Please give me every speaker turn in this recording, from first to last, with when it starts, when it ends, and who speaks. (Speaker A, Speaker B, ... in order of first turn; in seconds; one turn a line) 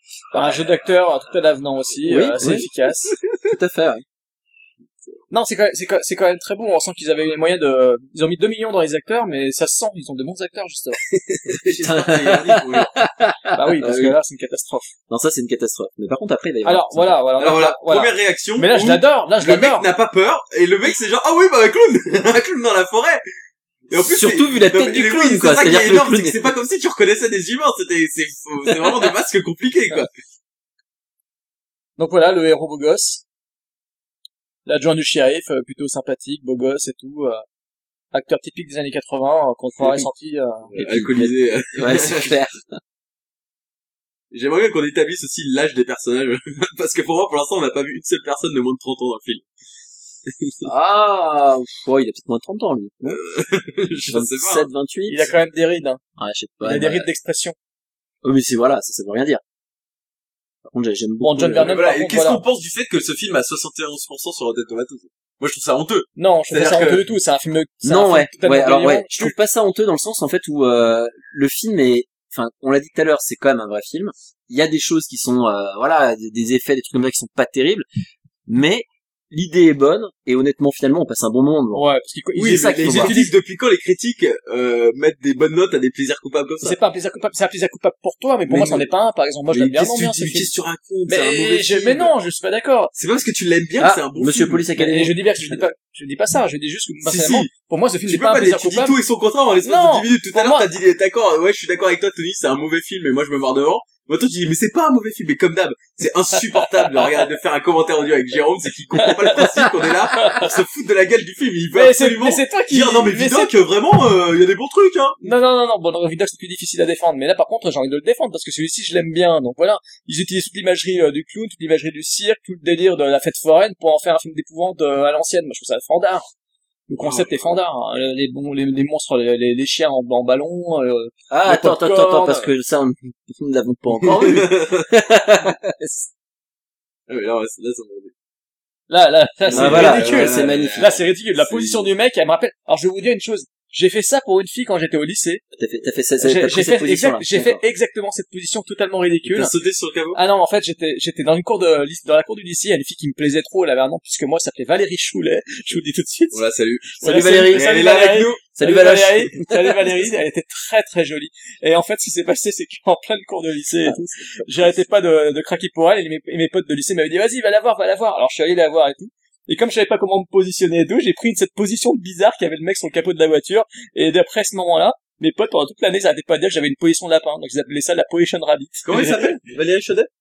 Speaker A: 0.3-0.6
Speaker B: 0.3-3.1
Speaker A: 2.0-2.7
Speaker A: 3.3-4.0
Speaker B: 5.3-11.0
Speaker C: 11.1-13.0
Speaker A: 11.5-14.2
Speaker B: 13.5-14.9
Speaker A: 15.1-17.2
Speaker B: 16.6-19.9
Speaker C: 17.4-23.2
Speaker C: 23.9-30.1
Speaker A: 23.9-26.5
Speaker B: 32.0-33.2
Speaker B: 34.6-37.4
Speaker B: 38.1-40.7
Speaker C: 40.7-42.4
Speaker A: 40.7-42.8
Speaker C: 44.3-49.4
Speaker C: 50.3-50.7
Speaker A: 50.6-53.2
Speaker C: 53.0-54.7
Speaker A: 54.1-55.3
Speaker B: 55.1-56.0
Speaker A: 56.2-57.1
Speaker B: 56.6-57.5
Speaker A: 58.2-59.4
Speaker A: 60.6-61.8
Speaker B: 61.2-62.4
Speaker C: 61.6-67.0
Speaker B: 66.2-69.4
Speaker A: 67.8-77.8
Speaker A: 78.5-83.2
Speaker B: 81.7-83.3
Speaker C: 82.4-86.8
Speaker B: 86.6-90.5
Speaker C: 88.5-88.9
Speaker C: 89.5-92.1
Speaker B: 91.1-92.9
Speaker C: 92.9-94.7
Speaker A: 93.8-95.7
Speaker B: 94.8-99.0
Speaker C: 97.0-97.5
Speaker C: 98.1-115.3
Speaker B: 99.6-100.7
Speaker B: 106.5-107.1
Speaker B: 109.0-110.5
Speaker B: 111.7-113.5
Speaker B: 115.2-126.3
Speaker B: 126.9-132.5
Speaker C: 127.0-127.6
Speaker A: 131.3-136.1
Speaker C: 134.0-134.9
Speaker C: 137.1-138.1
Speaker B: 138.9-145.4
Speaker C: 139.5-141.8
Speaker A: 139.5-141.0
Speaker A: 145.6-147.6
Speaker B: 146.2-149.5
Speaker C: 149.2-150.2
Speaker B: 150.1-156.4
Speaker C: 156.3-158.5
Speaker B: 157.0-179.4
Speaker A: 157.0-158.0
Speaker A: 158.6-159.8
Speaker A: 163.8-164.4
Speaker C: 178.8-180.1